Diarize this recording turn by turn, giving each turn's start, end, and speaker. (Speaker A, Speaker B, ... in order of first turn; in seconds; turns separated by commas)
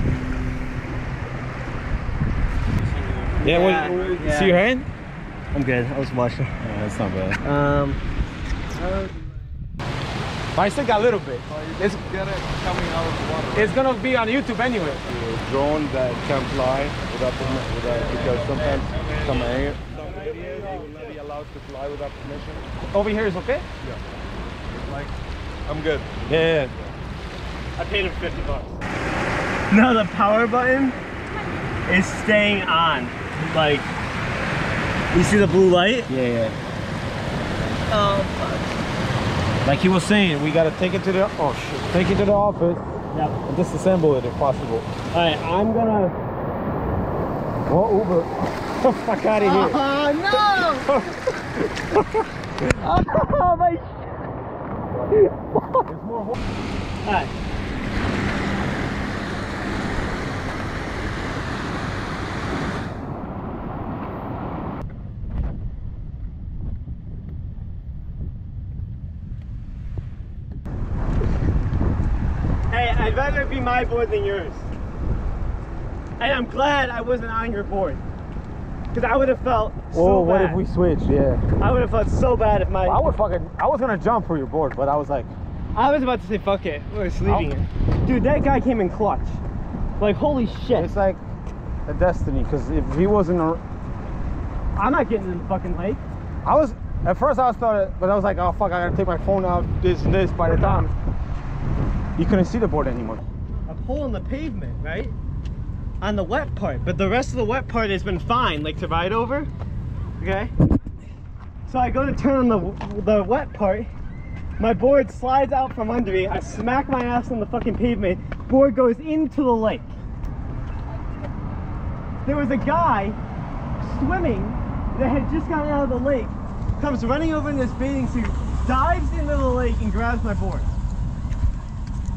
Speaker A: 2.9-4.3, Speaker B: 3.4-4.9, Speaker C: 3.4-4.5, Speaker C: 5.5-8.0, Speaker B: 6.8-7.2, Speaker B: 10.5-12.0, Speaker A: 11.5-13.7, Speaker B: 13.5-15.3, Speaker A: 15.3-22.6, Speaker B: 17.8-18.7, Speaker B: 19.2-19.6, Speaker C: 19.9-21.1, Speaker B: 22.9-23.6, Speaker A: 24.7-25.1, Speaker A: 25.7-26.2, Speaker B: 26.2-26.7, Speaker C: 27.8-28.8, Speaker C: 29.7-31.0, Speaker C: 31.9-33.9, Speaker C: 35.1-36.5, Speaker C: 37.9-38.7, Speaker B: 39.6-42.8, Speaker C: 43.1-43.4, Speaker B: 43.4-44.9, Speaker C: 45.1-46.2, Speaker B: 47.7-49.8, Speaker C: 49.4-51.0, Speaker B: 50.9-51.1, Speaker B: 51.8-52.0, Speaker C: 52.6-54.1, Speaker B: 55.8-56.4, Speaker C: 57.0-57.3, Speaker C: 72.7-74.6, Speaker C: 76.2-78.0, Speaker C: 78.9-80.6, Speaker B: 79.9-81.4, Speaker C: 81.6-83.0, Speaker B: 82.8-85.3, Speaker C: 85.7-89.4, Speaker C: 90.0-90.9, Speaker B: 90.7-91.2, Speaker B: 91.8-93.6, Speaker C: 94.8-96.0, Speaker B: 96.4-100.9, Speaker C: 100.4-100.9, Speaker B: 102.2-103.2, Speaker C: 103.7-105.1, Speaker C: 106.0-109.5, Speaker C: 110.2-110.5, Speaker C: 111.7-113.9, Speaker C: 114.6-119.9, Speaker C: 122.2-123.2, Speaker C: 123.8-130.7